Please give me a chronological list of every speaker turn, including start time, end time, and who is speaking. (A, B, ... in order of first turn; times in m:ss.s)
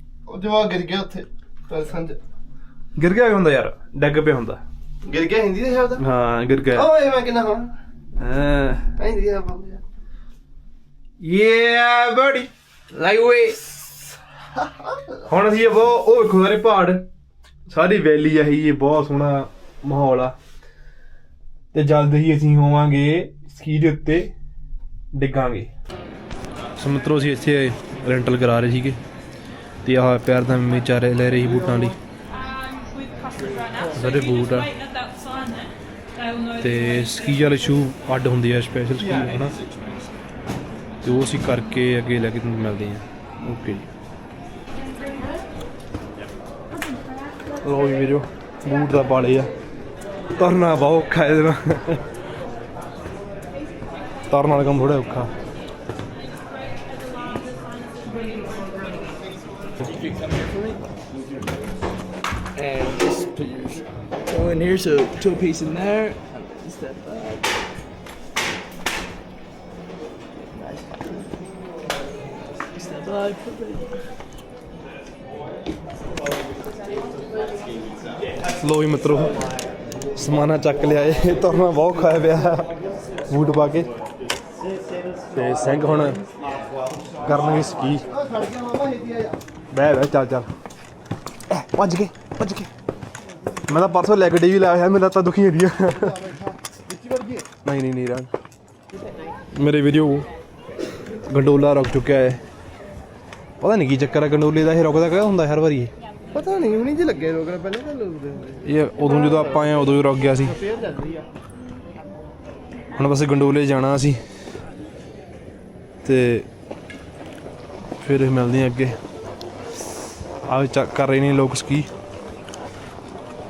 0:00.3-0:02.2 A
0:03.0-0:04.6 B
0:05.0-0:06.0 A
0:06.0-0:06.9 B
0:06.7-0:07.7 A
0:08.2-0:08.9 B
0:09.0-0:09.8 A
0:11.2-0:12.5 B
0:14.6-0:15.1 A
0:15.3-0:17.0 B
0:17.7-0:20.4 B
0:21.7-0:24.3 B
0:25.1-0:25.7 B
0:26.8-0:29.0 B
0:29.8-0:32.0 B
0:33.9-0:34.8 B
0:36.6-0:39.6 B
0:41.0-0:43.9 B
0:47.6-0:49.5 B
0:50.4-0:52.0 B
0:54.3-0:55.3 B
1:02.6-1:07.6 C
1:10.6-1:11.0 C
1:12.8-1:14.0 C
1:18.6-1:19.4 B
1:20.2-1:22.7 B
1:23.3-1:23.9 B
1:25.3-1:26.2 B
1:27.2-1:28.0 B
1:28.1-1:29.4 A
1:29.7-1:30.5 B
1:31.5-1:32.7 B
1:33.7-1:36.2 B
1:35.9-1:37.5 A
1:37.6-1:38.3 B
1:39.6-1:40.3 B
1:41.3-1:42.4 B
1:43.6-1:45.9 B
1:46.3-1:49.9 A
1:48.6-1:50.6 B
1:50.4-1:51.3 A
1:53.0-1:54.2 B
1:56.0-1:56.5 B
1:58.0-1:59.0 B
2:00.5-2:01.9 B